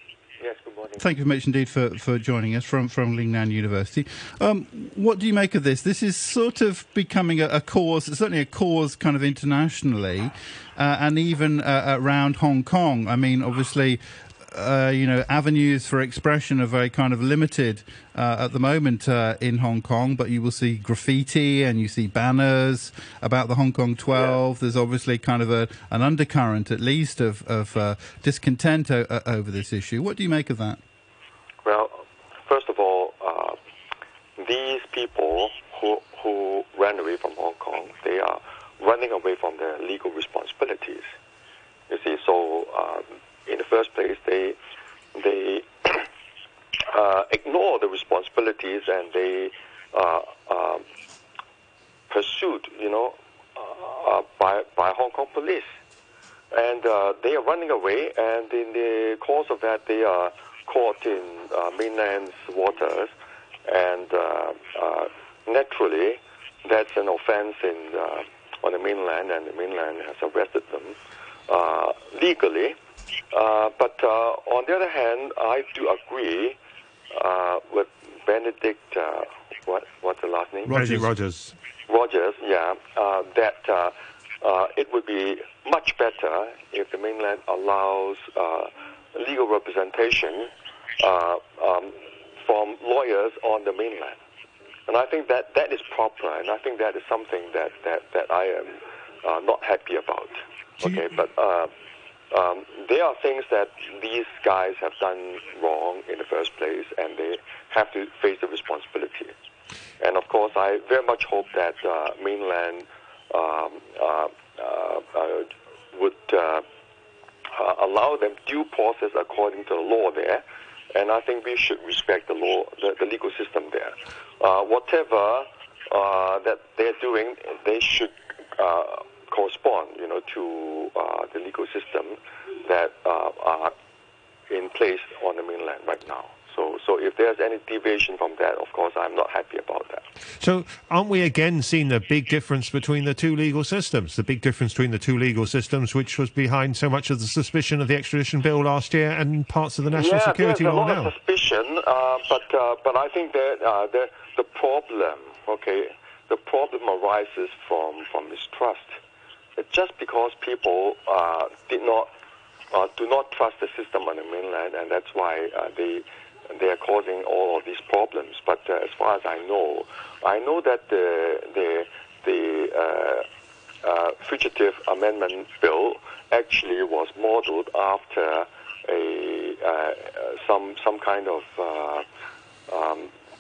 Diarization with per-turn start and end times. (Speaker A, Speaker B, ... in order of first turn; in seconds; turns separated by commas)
Speaker A: 0.4-1.0, Speaker B: 1.0-30.8, Speaker A: 31.6-33.6, Speaker A: 34.4-41.1, Speaker A: 41.9-44.6, Speaker A: 45.1-46.0, Speaker A: 46.9-50.9, Speaker A: 52.1-55.8, Speaker A: 56.5-63.1, Speaker A: 63.7-71.0, Speaker A: 71.5-72.8, Speaker A: 73.3-76.6, Speaker A: 77.1-80.8, Speaker B: 80.7-81.1, Speaker C: 80.7-81.6, Speaker A: 81.9-94.2, Speaker A: 94.9-101.7, Speaker A: 102.3-109.3, Speaker A: 110.0-116.6, Speaker A: 117.5-133.7, Speaker A: 134.5-140.0, Speaker C: 140.4-151.1, Speaker A: 149.9-159.0, Speaker A: 159.6-162.1, Speaker A: 162.7-173.2, Speaker A: 173.8-182.1, Speaker A: 182.7-183.1